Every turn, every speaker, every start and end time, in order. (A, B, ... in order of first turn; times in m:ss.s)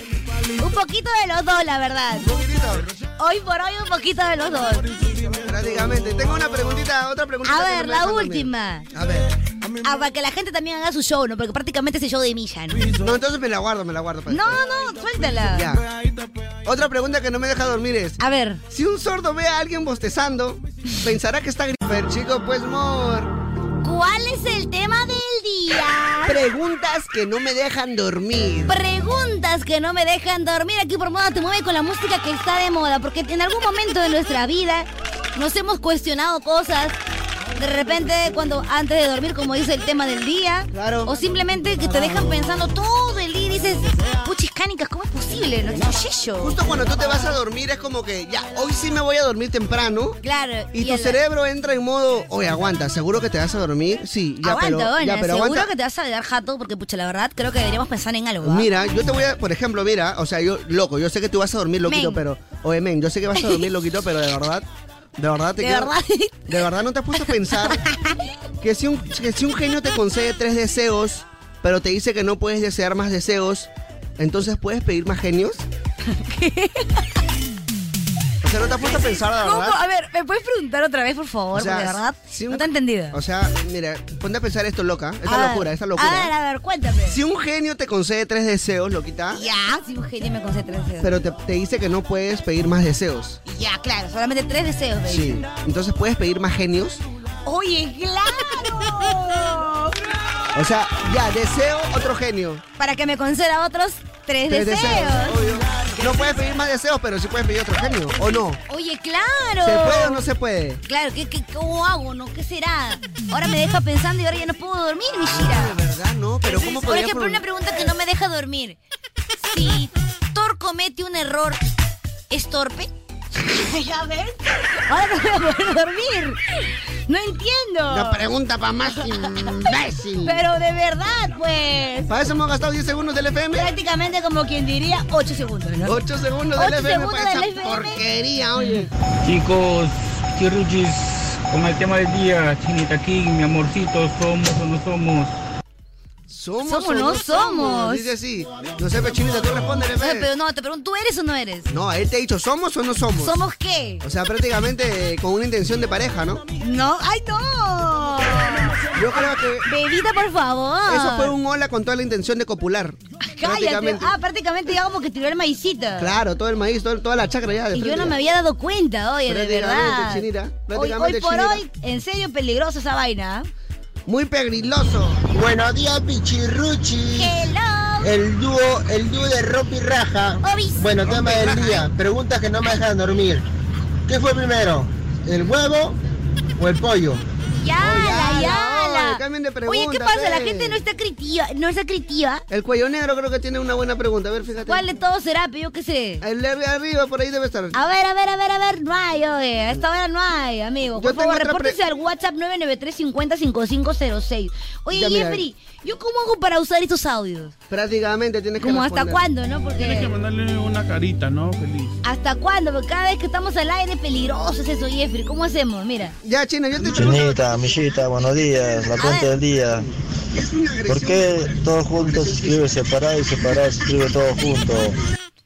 0:00.6-0:02.3 A
0:02.2-0:02.9 B
0:03.2-0:04.9 A
0:05.2-0:09.3 B
0:07.4-0:08.9 A
0:09.8-0:12.9 A
0:13.0-0:14.6 B
0:14.3-0:15.7 A
0:15.5-0:15.8 B
0:16.6-0:18.2 B
0:18.2-0:18.6 A
0:18.7-0:23.3 B
0:23.8-0:26.4 A
0:26.2-0:28.8 B
0:28.7-0:37.0 A
0:37.6-0:46.6 A
0:40.7-0:41.2 B
0:46.4-0:50.2 B
0:50.2-0:51.2 A
0:50.7-0:55.7 B
0:54.4-0:58.7 A
0:58.4-1:04.6 B
1:01.8-1:02.2 A
1:03.4-1:03.7 A
1:05.2-1:05.9 B
1:05.6-1:06.5 A
1:06.5-1:07.8 B
1:07.6-1:08.1 A
1:08.6-1:15.6 B
1:16.1-1:17.0 A
1:18.4-1:19.8 B
1:18.8-1:23.2 A
1:21.5-1:26.3 B
1:25.3-1:27.2 A
1:27.1-1:29.4 B
1:29.3-1:31.1 A
1:31.0-1:33.4 B
1:33.4-1:35.4 A
1:35.0-1:37.0 B
1:37.4-1:39.9 A
1:40.5-1:42.6 B
1:42.8-1:45.4 A
1:44.5-1:48.6 B
1:48.7-1:50.2 A
1:49.6-1:50.8 B
1:50.8-1:55.7 A
1:55.2-1:57.4 B
1:56.5-1:58.8 A
1:59.4-2:01.6 A
2:02.3-2:06.4 A
2:07.1-2:08.2 A
2:07.9-2:10.3 B
2:08.8-2:12.1 A
2:12.1-2:13.7 B
2:13.5-2:16.0 A
2:15.8-2:18.9 B
2:16.6-2:18.0 A
2:19.3-2:25.3 C
2:26.3-2:30.3 B
2:26.6-2:28.1 A
2:30.0-2:31.7 A
2:31.7-2:33.4 B
2:33.2-2:34.0 A
2:34.0-2:36.4 B
2:36.6-2:38.8 A
2:38.9-2:39.6 B
2:39.6-2:41.3 A
2:40.8-2:44.1 B
2:43.2-2:46.1 A
2:46.0-2:48.2 B
2:47.7-2:53.5 A
2:49.3-2:51.6 B
2:54.1-2:55.2 B
2:55.3-2:57.4 D
2:57.1-2:58.2 A
2:58.0-3:03.4 D
3:00.4-3:01.0 A
3:01.0-3:01.9 B
3:04.1-3:06.0 D
3:06.6-3:07.2 D
3:07.6-3:12.4 A
3:07.8-3:10.8 B
3:12.5-3:14.9 B
3:14.6-3:16.2 A
3:16.2-3:17.8 B
3:17.7-3:27.5 A
3:21.0-3:21.8 B
3:24.9-3:25.4 B
3:27.7-3:29.2 B
3:28.6-3:30.1 A
3:29.8-3:32.0 E
3:32.0-3:36.1 A
3:36.2-3:37.5 B
3:36.8-3:39.9 F
3:39.0-3:39.3 A
3:40.4-3:41.4 B
3:40.9-3:45.0 F
3:42.0-3:42.7 B